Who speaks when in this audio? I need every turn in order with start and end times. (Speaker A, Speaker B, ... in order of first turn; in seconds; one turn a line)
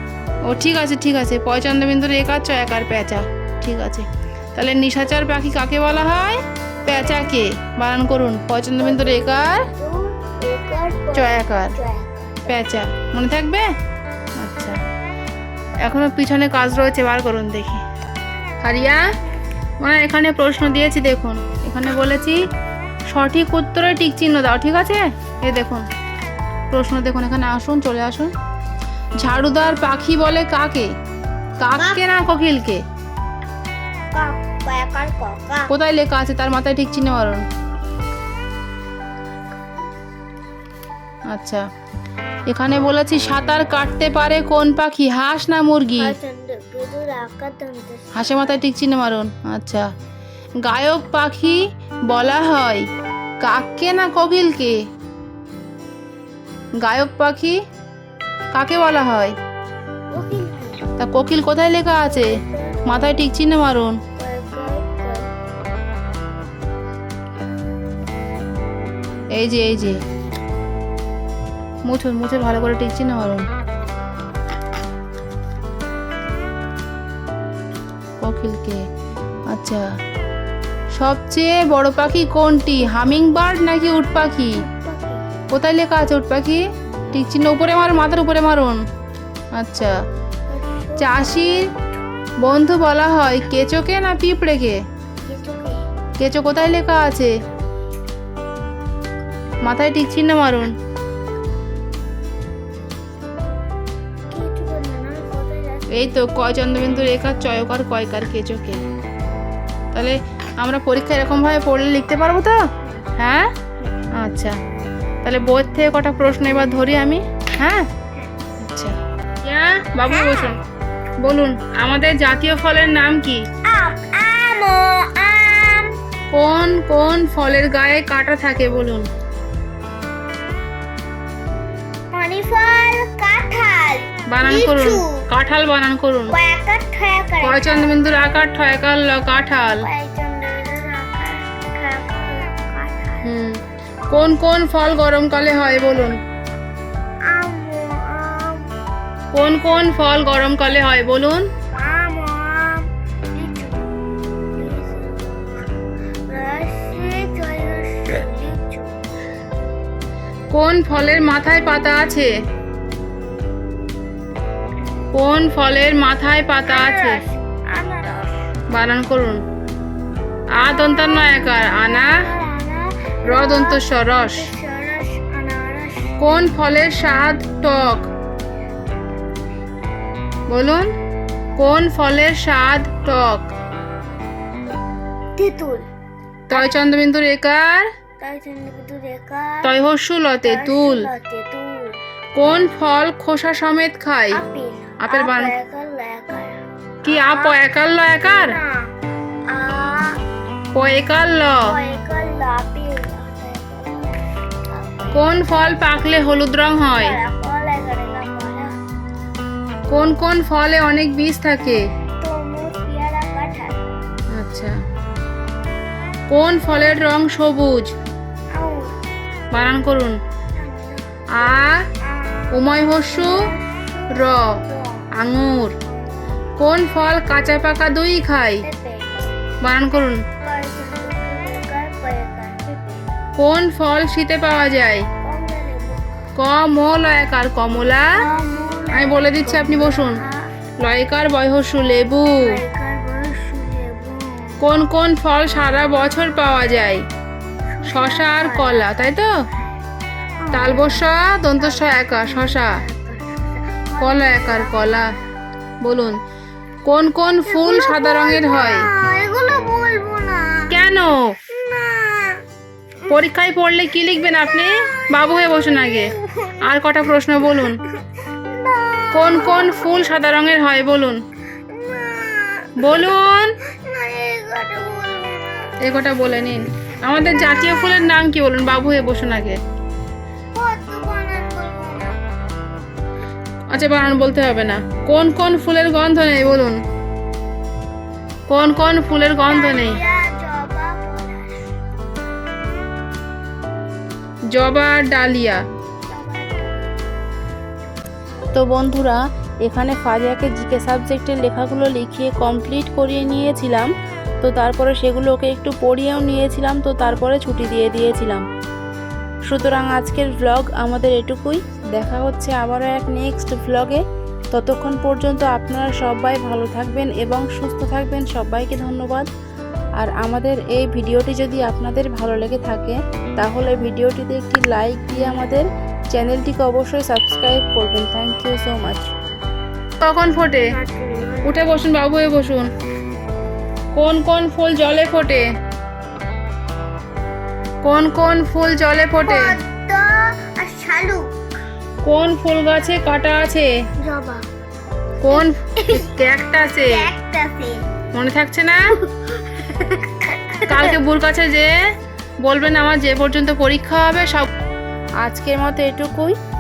Speaker A: 0.4-9.7
Speaker B: 6.9-7.4
Speaker B: 8.8-12.7
Speaker A: 11.2-11.7
Speaker A: 12.5-13.7
Speaker A: 14.4-14.8
Speaker A: 15.8-17.8
Speaker A: 18.6-19.0
Speaker A: 19.8-22.4
Speaker A: 23.1-25.9
Speaker A: 26.7-28.3
Speaker A: 29.2-30.9
Speaker A: 31.6-32.8
Speaker B: 31.8-32.0
Speaker B: 34.1-35.7
Speaker A: 35.7-37.4
Speaker A: 41.3-41.6
Speaker A: 42.5-46.1
Speaker B: 46.0-48.6
Speaker A: 48.1-49.9
Speaker A: 50.6-52.9
Speaker A: 53.4-54.8
Speaker A: 56.8-57.6
Speaker A: 58.5-59.4
Speaker B: 60.1-60.8
Speaker A: 61.0-64.0
Speaker B: 62.0-63.2
Speaker B: 64.2-65.3
Speaker A: 69.3-70.0
Speaker A: 71.9-73.5
Speaker A: 78.2-78.8
Speaker A: 79.5-79.9
Speaker A: 81.0-84.6
Speaker B: 84.5-85.3
Speaker A: 85.5-88.8
Speaker A: 89.6-89.9
Speaker B: 90.5-92.0
Speaker A: 91.0-91.6
Speaker A: 92.4-94.8
Speaker B: 95.2-95.8
Speaker A: 96.2-97.3
Speaker A: 99.6-100.7
Speaker B: 104.3-106.2
Speaker A: 105.9-108.8
Speaker A: 109.9-112.6
Speaker B: 112.8-113.1
Speaker A: 113.2-113.5
Speaker A: 114.1-114.6
Speaker A: 115.2-117.9
Speaker A: 118.6-120.6
Speaker B: 120.0-120.6
Speaker A: 121.2-123.4
Speaker B: 123.7-125.9
Speaker A: 126.3-129.1
Speaker B: 132.1-135.2
Speaker A: 134.3-136.3
Speaker B: 136.3-138.0
Speaker A: 137.4-139.8
Speaker B: 139.8-143.2
Speaker A: 143.2-143.6
Speaker A: 144.1-146.2
Speaker B: 147.3-148.7
Speaker A: 149.3-151.4
Speaker B: 151.8-155.7
Speaker B: 156.3-159.0
Speaker A: 160.5-162.3
Speaker A: 165.1-167.2
Speaker B: 166.7-168.5
Speaker A: 168.7-169.4
Speaker A: 170.6-172.3
Speaker B: 170.6-176.2
Speaker A: 173.3-174.5
Speaker A: 176.2-178.1
Speaker A: 180.5-180.9
Speaker A: 181.6-183.5
Speaker B: 185.4-185.9
Speaker A: 186.5-187.9
Speaker B: 186.5-186.9
Speaker B: 188.2-189.7
Speaker A: 189.6-191.1
Speaker B: 190.4-192.0
Speaker A: 192.4-194.4
Speaker B: 194.3-197.7
Speaker A: 195.0-195.5
Speaker A: 197.0-198.5
Speaker B: 198.2-198.9
Speaker B: 199.5-200.2
Speaker A: 200.7-201.7
Speaker B: 201.6-205.3
Speaker A: 205.1-207.2
Speaker B: 206.8-208.7
Speaker A: 209.9-211.8
Speaker B: 212.2-213.8
Speaker A: 214.3-214.8
Speaker A: 216.3-217.9
Speaker B: 218.5-218.9
Speaker A: 219.5-220.2
Speaker B: 220.6-225.1
Speaker A: 221.4-221.9
Speaker A: 222.5-223.4
Speaker A: 224.1-224.6
Speaker A: 225.1-225.7
Speaker B: 225.9-226.5
Speaker A: 226.6-228.6
Speaker B: 228.6-229.4
Speaker A: 229.6-230.2
Speaker B: 230.4-233.1
Speaker A: 233.4-235.1
Speaker B: 235.2-236.2
Speaker A: 236.4-238.1
Speaker B: 238.2-240.6
Speaker A: 238.9-240.2
Speaker A: 240.8-242.6
Speaker B: 242.4-244.6
Speaker A: 244.6-247.0
Speaker B: 247.8-249.8
Speaker A: 247.9-249.3
Speaker B: 250.4-251.1
Speaker A: 250.5-252.8
Speaker B: 251.6-255.3
Speaker A: 254.0-255.1
Speaker A: 255.8-256.2
Speaker A: 256.9-258.9
Speaker B: 257.4-260.8
Speaker A: 260.7-261.4
Speaker B: 261.5-262.4
Speaker A: 263.1-267.8
Speaker B: 264.3-266.7
Speaker B: 267.4-270.1
Speaker A: 269.1-271.2
Speaker B: 271.7-273.2
Speaker A: 272.8-273.6
Speaker B: 273.7-275.8
Speaker A: 275.8-279.6
Speaker B: 277.4-278.1
Speaker B: 280.6-282.2
Speaker A: 283.7-286.8
Speaker A: 288.5-290.0
Speaker B: 289.5-291.7
Speaker A: 294.5-295.6
Speaker B: 296.1-296.8
Speaker A: 298.5-303.9
Speaker A: 304.4-308.4
Speaker A: 309.5-314.0
Speaker A: 314.5-319.3
Speaker A: 320.0-329.1
Speaker A: 330.0-330.7
Speaker B: 330.6-331.6
Speaker A: 331.4-332.7
Speaker A: 333.9-335.4
Speaker A: 337.8-339.6
Speaker B: 339.2-341.3
Speaker A: 342.0-343.7
Speaker B: 344.0-344.4
Speaker A: 345.2-347.1
Speaker B: 345.2-346.2
Speaker B: 346.9-347.8
Speaker A: 348.1-348.9
Speaker B: 349.0-351.0
Speaker A: 350.7-351.7
Speaker A: 352.4-354.5
Speaker A: 355.2-356.4